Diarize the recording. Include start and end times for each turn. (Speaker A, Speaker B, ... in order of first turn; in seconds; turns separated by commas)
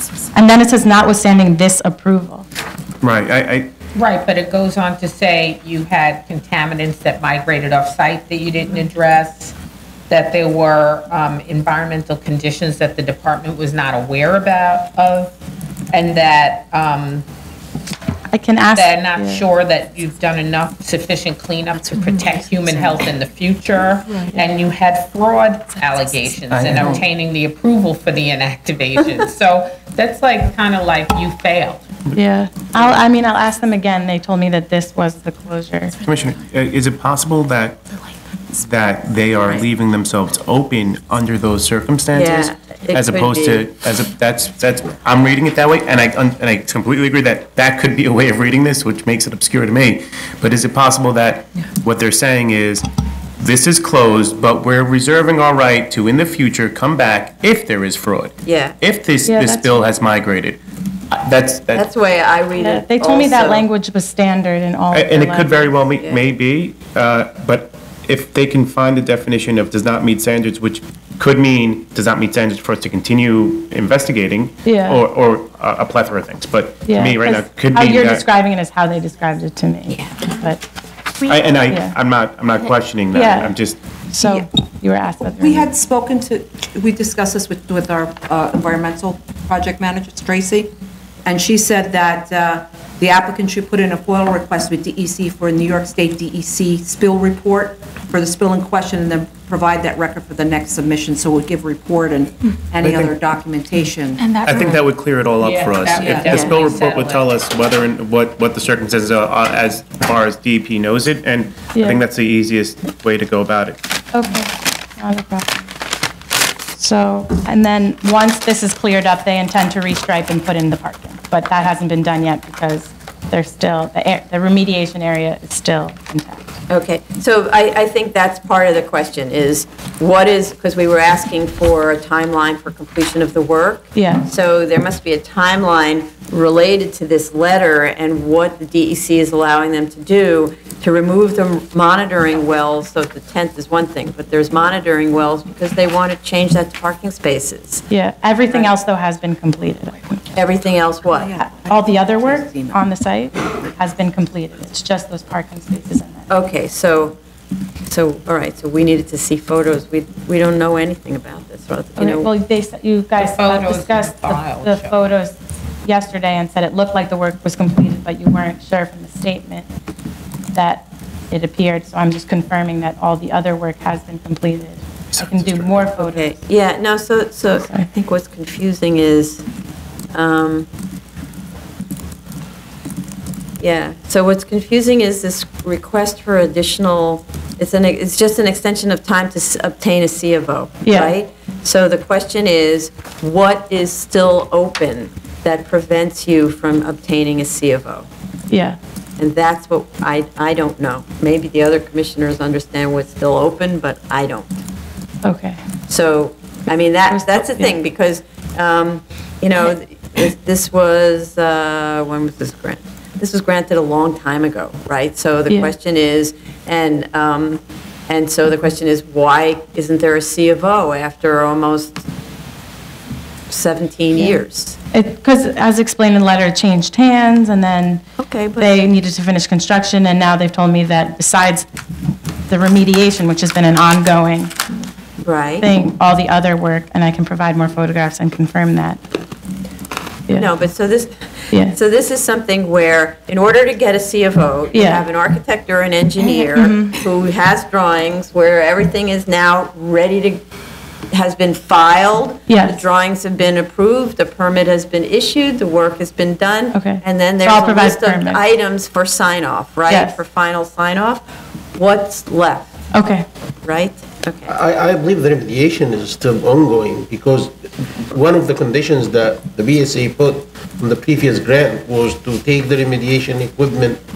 Speaker A: 0.3-2.5, Speaker B: 3.0-3.7, Speaker C: 3.9-9.5, Speaker C: 10.1-15.3, Speaker C: 15.9-17.2, Speaker A: 18.3-19.4, Speaker C: 18.7-31.8, Speaker B: 26.5-27.0, Speaker A: 32.1-36.0, Speaker B: 36.0-37.8, Speaker B: 38.5-52.8, Speaker D: 39.4-39.7, Speaker D: 42.1-43.7, Speaker B: 53.4-60.6, Speaker D: 58.5-58.8, Speaker A: 59.2-59.9, Speaker B: 61.1-61.8, Speaker D: 61.7-63.6, Speaker A: 62.5-65.7, Speaker B: 64.9-78.2, Speaker D: 65.9-66.2, Speaker A: 74.6-75.0, Speaker A: 76.8-80.6, Speaker B: 81.2-83.8, Speaker A: 81.7-81.9, Speaker A: 83.1-83.5, Speaker A: 84.1-85.7, Speaker E: 85.4-90.7, Speaker E: 91.2-104.2, Speaker B: 102.8-103.1, Speaker C: 104.2-104.9, Speaker B: 104.4-113.8, Speaker C: 105.4-107.4, Speaker E: 105.9-106.4, Speaker D: 106.2-106.6, Speaker A: 111.7-112.0, Speaker A: 114.1-115.7, Speaker A: 116.7-126.6, Speaker D: 126.7-147.8, Speaker A: 133.9-134.2, Speaker A: 147.9-150.1, Speaker D: 150.3-151.3, Speaker E: 151.1-152.8, Speaker A: 151.6-156.3, Speaker D: 156.3-157.2, Speaker D: 157.9-162.3, Speaker A: 161.9-169.7, Speaker C: 163.2-165.1, Speaker A: 170.5-176.4, Speaker B: 175.1-175.9, Speaker D: 175.9-179.4, Speaker A: 177.5-177.9, Speaker D: 180.1-180.7, Speaker D: 183.6-198.1, Speaker A: 190.8-191.1, Speaker A: 198.5-198.8, Speaker D: 199.2-204.5, Speaker A: 205.2-205.6, Speaker D: 205.9-222.0, Speaker A: 207.1-207.7, Speaker D: 223.5-224.8, Speaker A: 224.9-228.0, Speaker D: 228.2-228.7, Speaker A: 228.6-231.7, Speaker A: 232.5-234.5, Speaker D: 235.2-235.7, Speaker A: 235.6-239.0, Speaker D: 240.3-250.4, Speaker A: 241.5-241.8, Speaker A: 244.7-245.1, Speaker A: 246.5-247.0, Speaker D: 251.1-261.2, Speaker A: 252.5-252.8, Speaker A: 256.7-258.4, Speaker A: 259.9-260.2, Speaker D: 261.8-262.8, Speaker A: 262.9-263.2, Speaker D: 263.6-264.5, Speaker F: 264.5-274.0